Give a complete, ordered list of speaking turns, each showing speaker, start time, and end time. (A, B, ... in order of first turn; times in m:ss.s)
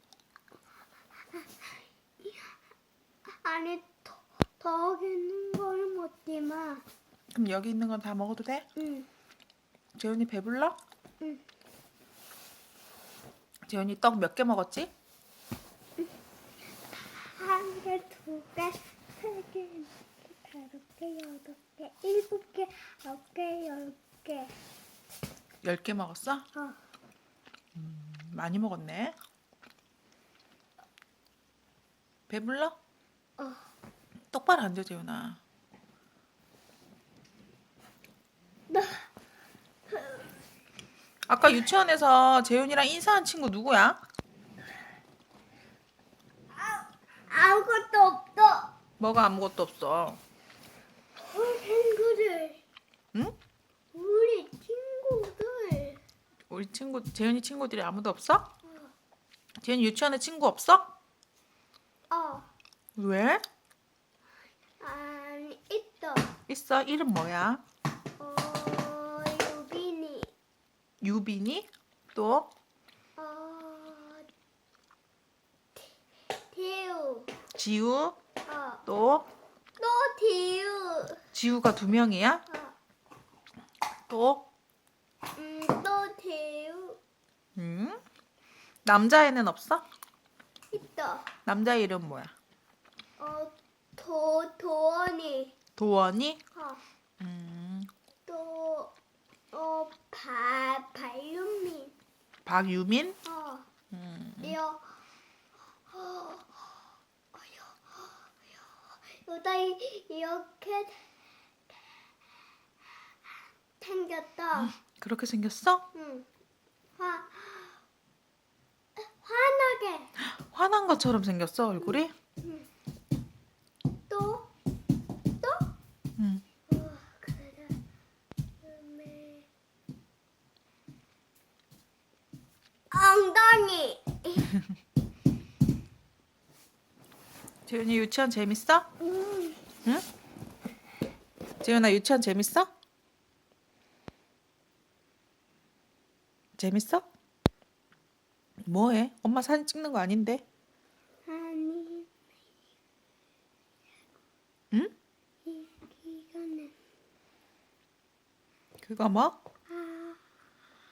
0:01.4-0:02.5 A
0:03.3-0:06.8 A
0:07.3-0:08.7 B
0:08.8-0:09.1 A
0:10.0-0:10.8 B
0:13.7-0:14.9 B
0:16.9-0:24.6 A
0:25.6-0:26.5 B
0:27.8-0:29.2 B
0:32.3-0:32.8 B
0:33.4-0:33.7 A
0:34.3-0:35.4 B
0:38.7-0:39.1 A
0:39.9-0:40.3 A
0:41.3-0:44.0 B
0:47.3-0:48.7 A
0:49.0-0:50.2 B
0:51.3-0:52.6 A
0:53.9-0:56.0 A
0:56.5-0:58.5 B
0:58.6-0:58.9 A
0:59.6-1:00.9 B
1:02.1-1:02.5 A
1:03.0-1:03.4 B
1:04.8-1:06.3 A
1:06.5-1:07.6 B
1:08.2-1:10.3 A
1:11.0-1:12.5 B
1:13.2-1:14.3 A
1:16.5-1:17.3 A
1:17.6-1:18.2 B
1:18.5-1:18.8 A
1:18.9-1:19.3 B
1:19.8-1:21.2 A
1:21.3-1:22.4 B
1:22.5-1:22.8 A
1:24.1-1:24.5 B
1:25.4-1:27.0 A
1:27.6-1:28.0 B
1:28.8-1:29.8 B
1:30.7-1:31.3 A
1:31.5-1:32.3 B
1:33.2-1:35.6 A
1:35.8-1:36.4 B
1:36.5-1:36.8 A
1:37.2-1:37.9 B
1:38.3-1:38.9 A
1:39.5-1:41.9 A
1:42.5-1:43.2 B
1:43.2-1:43.7 A
1:43.9-1:44.6 B
1:44.4-1:45.0 A
1:45.9-1:46.8 A
1:47.3-1:51.1 A
1:53.8-1:54.8 A
1:54.6-1:55.9 B
1:56.0-1:56.3 A
1:57.0-1:57.8 A
1:59.0-2:00.1 A
2:00.2-2:02.1 B
2:01.8-2:02.7 A
2:04.1-2:04.5 A
2:05.4-2:05.7 A
2:06.2-2:06.4 B
2:06.7-2:07.8 A
2:08.6-2:09.5 A
2:12.9-2:14.5 A
2:17.7-2:18.9 B
2:19.1-2:19.6 A
2:21.6-2:22.7 B
2:26.6-2:27.0 B
2:28.6-2:30.4 B
2:31.3-2:32.1 A
2:35.4-2:36.8 A
2:38.8-2:39.4 B
2:39.7-2:40.2 A